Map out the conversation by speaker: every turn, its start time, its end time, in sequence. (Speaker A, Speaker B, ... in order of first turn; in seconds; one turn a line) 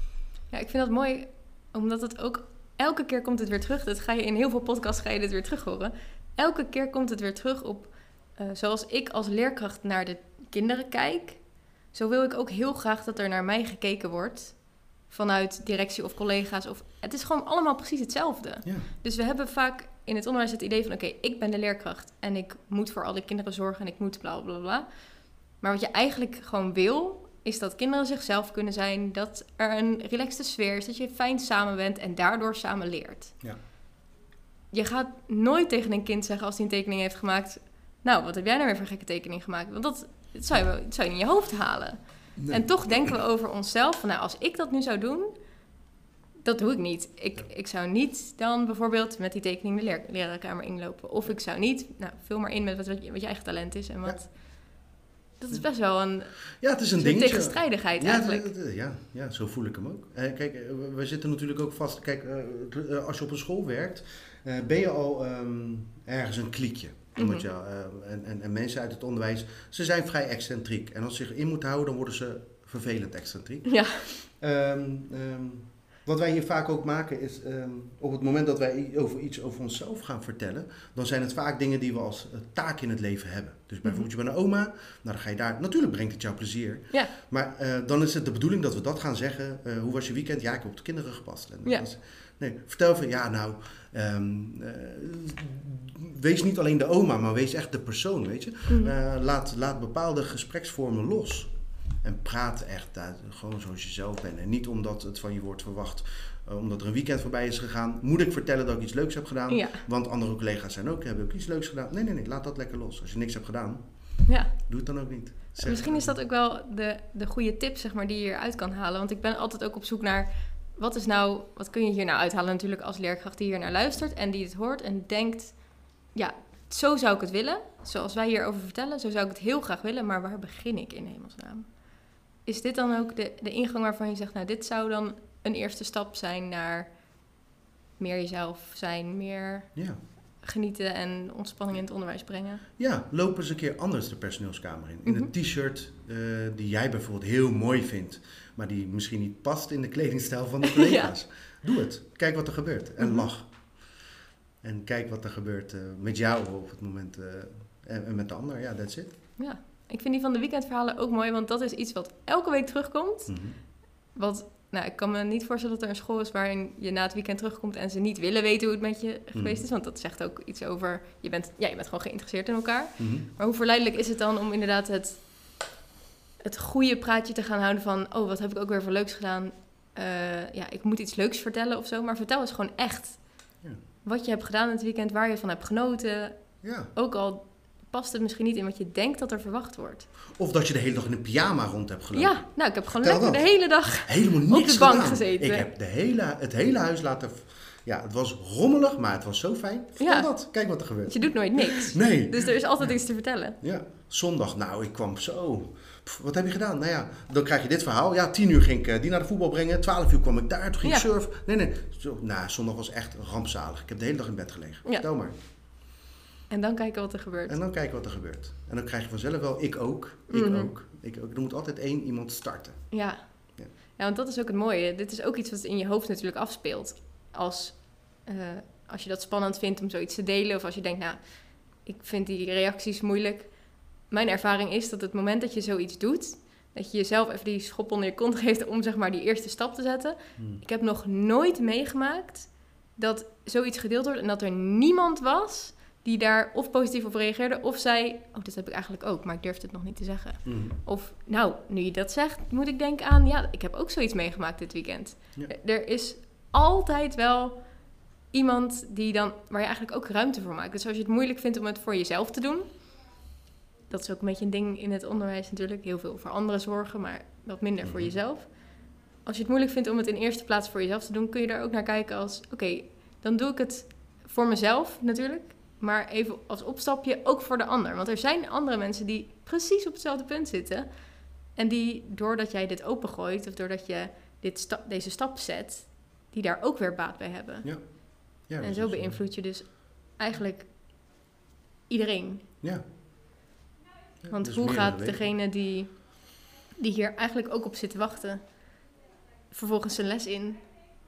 Speaker A: 0.5-33.4
Speaker A: 34.7-45.3
Speaker B: 42.4-43.2
Speaker A: 46.4-58.5
Speaker B: 56.6-116.2
Speaker A: 67.2-67.4
Speaker A: 73.7-74.1
Speaker A: 98.7-98.9
Speaker A: 109.5-109.8
Speaker A: 114.3-114.7
Speaker A: 115.6-137.3
Speaker A: 138.0-142.6
Speaker B: 142.8-154.0
Speaker A: 145.1-145.3
Speaker A: 150.7-151.1
Speaker A: 153.0-153.3
Speaker B: 154.6-159.2
Speaker A: 159.4-175.7
Speaker B: 163.3-163.6
Speaker B: 169.3-169.7
Speaker B: 173.0-173.3
Speaker A: 176.4-190.1
Speaker B: 186.6-186.9
Speaker B: 190.3-203.0
Speaker A: 192.1-195.7
Speaker A: 200.0-200.3
Speaker A: 201.0-203.6
Speaker B: 203.6-215.3
Speaker A: 216.5-217.6
Speaker B: 217.5-223.0
Speaker A: 220.3-220.7
Speaker A: 222.9-262.9
Speaker B: 240.4-240.6
Speaker B: 250.4-250.8
Speaker A: 263.9-291.2
Speaker B: 267.8-268.1
Speaker B: 287.6-289.2
Speaker A: 291.9-292.4
Speaker B: 294.2-295.2
Speaker A: 294.3-298.7
Speaker A: 299.5-300.7